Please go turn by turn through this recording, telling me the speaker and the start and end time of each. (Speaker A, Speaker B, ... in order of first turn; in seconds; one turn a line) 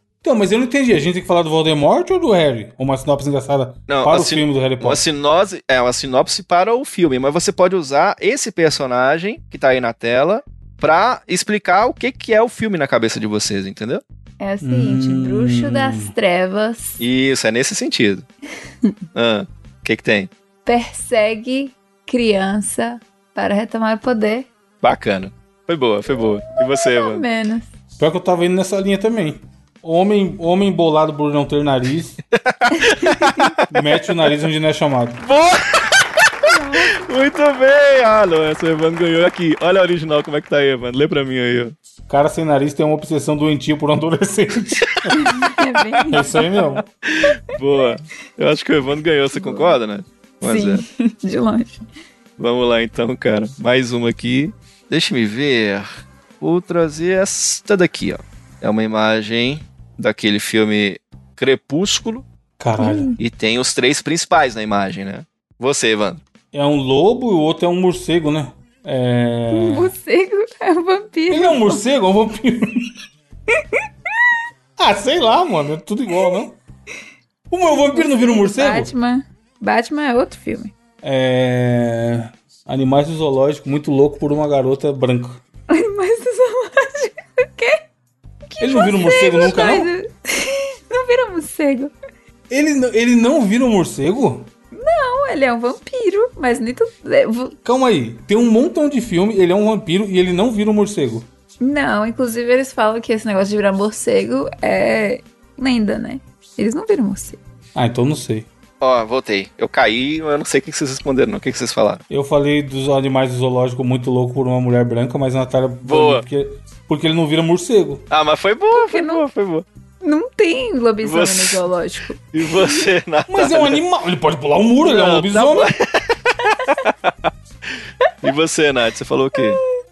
Speaker A: 0.2-5.0
Speaker B: 3.9-14.0
Speaker C: 14.4-17.0
Speaker A: 14.6-16.1
Speaker B: 17.0-18.2
Speaker B: 19.1-20.3
Speaker C: 20.6-24.5
Speaker B: 24.8-27.2
Speaker C: 26.6-27.7
Speaker A: 28.0-32.2
Speaker B: 32.3-33.6
Speaker C: 32.9-33.4
Speaker A: 33.6-35.2
Speaker B: 35.2-41.7
Speaker C: 36.4-37.0
Speaker A: 42.1-45.5
Speaker B: 44.8-45.1
Speaker C: 45.1-46.5
Speaker A: 46.1-46.8
Speaker B: 46.5-50.8
Speaker C: 49.4-49.8
Speaker C: 50.4-51.8
Speaker B: 52.4-55.9
Speaker B: 56.4-62.2
Speaker A: 62.6-63.1
Speaker C: 62.8-63.2
Speaker B: 63.2-66.2
Speaker A: 66.5-69.9
Speaker C: 69.5-71.8
Speaker A: 71.3-73.0
Speaker A: 74.8-76.6
Speaker A: 77.5-78.9
Speaker C: 77.9-80.7
Speaker A: 81.0-85.4
Speaker C: 85.7-87.8
Speaker C: 88.5-91.9
Speaker A: 88.6-89.9
Speaker A: 92.5-94.5
Speaker C: 94.7-97.5
Speaker A: 97.6-101.3
Speaker C: 101.6-107.4
Speaker A: 107.7-108.5
Speaker B: 108.8-112.0
Speaker A: 112.1-118.0
Speaker B: 115.8-116.2
Speaker B: 118.1-119.7
Speaker C: 118.7-119.2
Speaker C: 120.0-122.8
Speaker B: 121.0-121.6
Speaker B: 122.3-123.8
Speaker A: 123.3-125.7
Speaker B: 124.8-127.3
Speaker B: 128.2-129.6